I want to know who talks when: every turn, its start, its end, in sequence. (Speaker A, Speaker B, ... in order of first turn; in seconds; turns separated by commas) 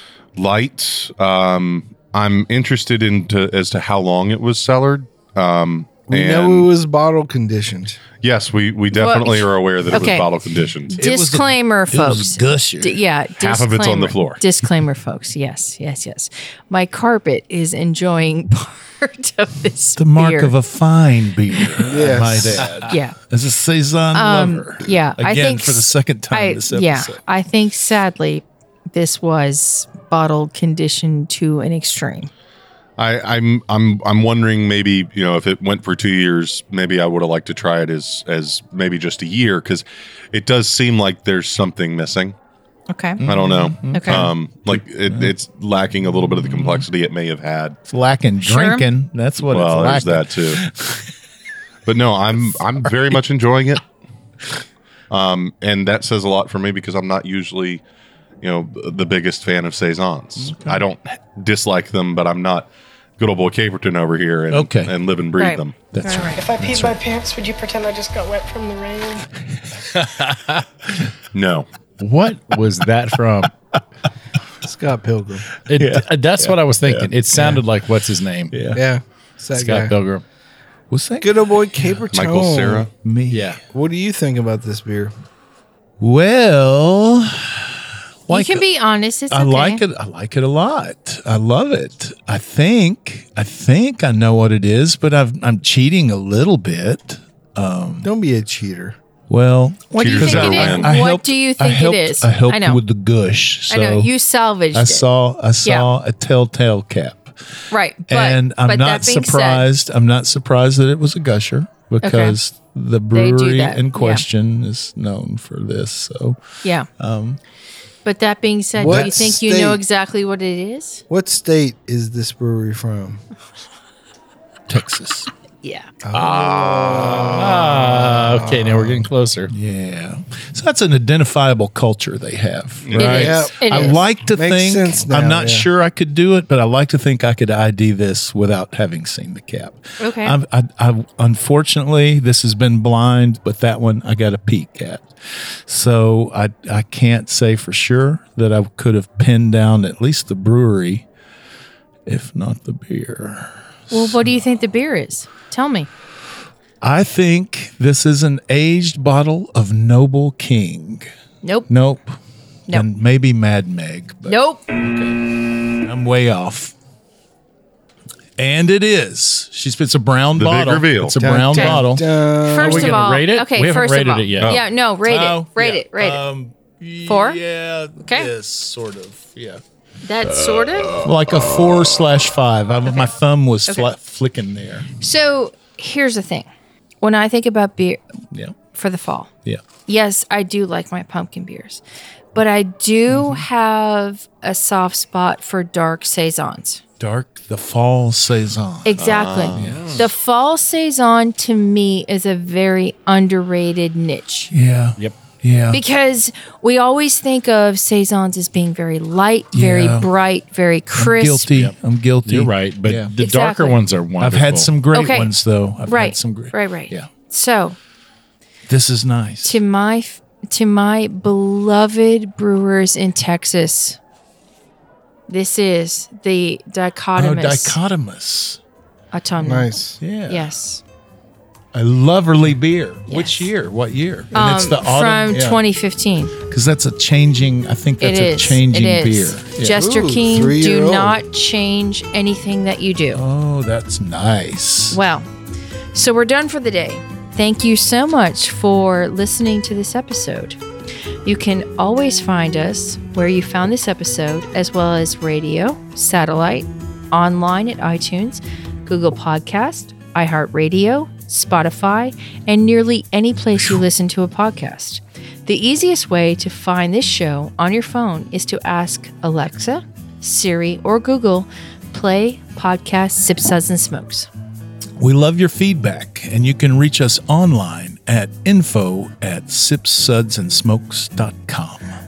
Speaker A: 0.3-6.7, Speaker B: 6.1-8.0, Speaker A: 8.2-11.0, Speaker C: 8.9-10.3, Speaker C: 10.9-20.5, Speaker D: 10.9-13.0, Speaker A: 13.4-14.4, Speaker D: 20.0-27.2, Speaker C: 21.5-21.9, Speaker B: 21.8-22.7, Speaker C: 22.9-23.2, Speaker C: 24.1-32.3, Speaker A: 33.0-42.4, Speaker C: 42.9-43.2, Speaker D: 43.2-45.3, Speaker A: 43.2-47.8, Speaker C: 43.9-44.3, Speaker D: 46.1-46.8, Speaker D: 47.9-51.1, Speaker C: 48.4-48.9, Speaker A: 49.4-50.6, Speaker A: 51.9-53.8, Speaker A: 55.1-57.8, Speaker A: 58.4-65.9, Speaker D: 60.4-60.8, Speaker D: 64.5-64.9, Speaker C: 65.4-66.4, Speaker D: 65.9-67.0, Speaker E: 66.3-69.3, Speaker D: 69.8-70.6, Speaker A: 71.3-71.7, Speaker F: 72.0-73.5, Speaker B: 74.6-75.5, Speaker F: 75.7-78.5, Speaker D: 75.7-77.6, Speaker D: 78.5-78.8, Speaker B: 78.7-79.9, Speaker F: 79.5-80.2, Speaker D: 80.9-82.0, Speaker B: 81.2-82.9, Speaker A: 82.1-82.9, Speaker D: 83.0-83.6, Speaker F: 83.3-83.6, Speaker B: 83.7-85.1, Speaker D: 86.0-87.8, Speaker D: 88.3-88.7, Speaker C: 88.3-89.8, Speaker D: 89.3-98.1, Speaker B: 98.0-99.0, Speaker D: 99.3-104.1, Speaker C: 99.9-102.8, Speaker A: 100.0-100.9, Speaker C: 103.7-105.1, Speaker D: 104.7-107.3, Speaker C: 105.6-105.9, Speaker C: 107.7-109.6, Speaker D: 108.1-116.4, Speaker C: 112.0-112.4, Speaker C: 113.1-114.2, Speaker D: 117.0-117.4, Speaker C: 118.0-121.0, Speaker B: 118.8-119.8, Speaker B: 121.1-123.2, Speaker D: 124.7-125.3, Speaker C: 125.6-125.9, Speaker B: 126.0-129.0, Speaker F: 126.1-129.5, Speaker D: 129.5-145.2, Speaker A: 132.8-133.4, Speaker C: 133.0-133.9, Speaker B: 133.0-135.7, Speaker C: 140.0-140.4, Speaker D: 145.7-151.1, Speaker D: 152.1-154.4, Speaker C: 153.9-155.9, Speaker D: 156.8-161.1, Speaker C: 161.4-161.7, Speaker D: 161.7-162.1, Speaker D: 162.7-165.2, Speaker C: 164.2-164.6, Speaker D: 165.8-166.7, Speaker D: 168.4-172.0, Speaker A: 170.3-171.2, Speaker B: 171.2-172.9, Speaker C: 171.5-171.8, Speaker C: 172.5-176.2, Speaker F: 172.6-174.6, Speaker D: 175.0-179.6, Speaker C: 177.1-177.4, Speaker C: 178.0-178.3, Speaker C: 180.0-181.0, Speaker D: 181.0-184.9, Speaker C: 185.0-186.5, Speaker C: 187.0-188.0, Speaker C: 188.7-189.3, Speaker C: 189.9-191.8, Speaker C: 192.3-196.8, Speaker D: 193.1-193.4, Speaker D: 197.0-199.0, Speaker C: 198.8-204.5, Speaker A: 199.0-200.1, Speaker F: 199.6-200.0, Speaker D: 199.6-200.1, Speaker D: 204.5-205.8, Speaker C: 205.7-211.5, Speaker D: 209.5-210.1, Speaker D: 210.9-213.1, Speaker F: 211.5-214.7, Speaker C: 213.2-213.8, Speaker D: 214.2-217.1, Speaker C: 214.9-215.3, Speaker C: 215.8-217.8, Speaker D: 218.7-219.6, Speaker C: 219.4-224.0, Speaker C: 225.3-227.8, Speaker D: 227.1-228.6, Speaker C: 229.1-230.8, Speaker B: 229.4-230.0, Speaker D: 230.0-230.5, Speaker D: 231.7-235.6, Speaker C: 233.1-233.5, Speaker C: 234.3-236.3, Speaker D: 236.4-239.8, Speaker C: 238.0-243.2, Speaker B: 239.7-241.2, Speaker D: 243.1-245.0, Speaker C: 244.9-245.3, Speaker C: 245.9-250.6, Speaker C: 251.2-274.3, Speaker D: 275.0-281.9